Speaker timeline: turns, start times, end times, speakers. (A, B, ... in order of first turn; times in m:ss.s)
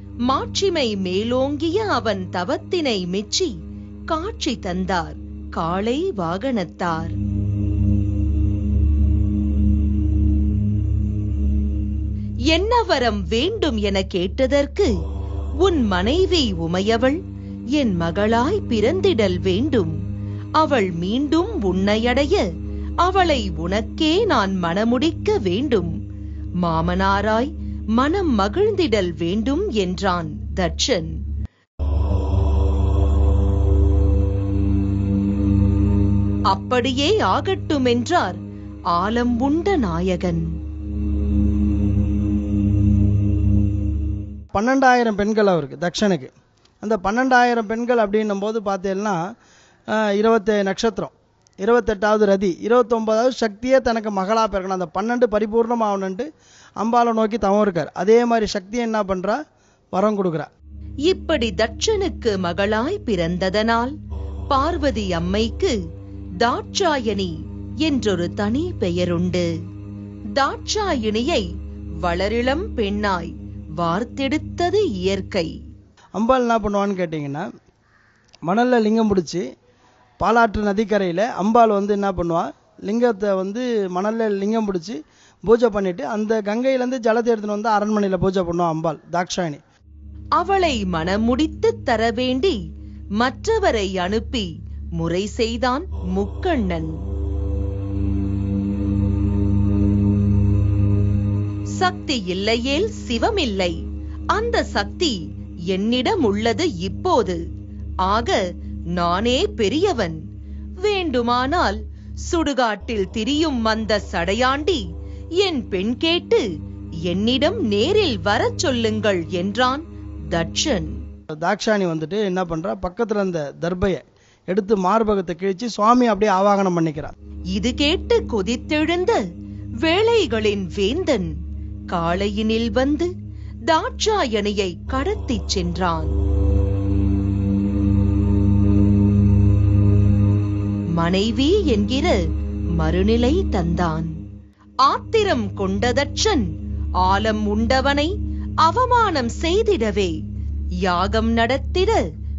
0:00.3-0:03.5 A
0:04.1-0:07.2 A
0:12.5-0:14.9 A
0:15.6-0:17.2 A
0:17.7-0:19.9 A
0:20.6-0:22.4 A
0:23.0-0:25.9 A
0:26.6-0:31.1 A
0:36.5-0:38.4 A
0:38.9-0:40.5 A
0:44.5-0:46.3 B
0:46.8-0:49.2 B
0:49.9-0:51.1 B
0:51.6-0:56.3 B
0:56.8-0:59.4 B
0:59.9-1:00.5 B
1:01.1-1:03.9 A
1:04.5-1:05.7 A
1:06.4-1:07.3 A
1:07.8-1:09.5 A
1:10.4-1:11.4 A
1:12.0-1:15.5 A
1:16.2-1:17.4 B
1:18.5-1:19.4 B
1:20.2-1:29.6 B
1:30.4-1:32.6 A
1:33.2-1:36.9 A
1:41.8-1:43.8 A
1:44.3-1:45.2 A
1:45.7-1:47.4 A
1:48.0-1:48.4 A
1:48.9-1:50.2 A
1:50.8-1:54.8 A
1:55.4-1:56.4 A
1:57.1-2:00.9 A
2:01.4-2:07.1 B
2:07.5-2:09.2 A
2:09.8-2:11.3 A
2:11.9-2:13.1 A
2:13.6-2:16.1 A
2:20.9-2:22.2 A
2:22.8-2:24.1 A
2:24.8-2:26.4 A
2:27.0-2:30.2 A
2:30.8-2:32.0 A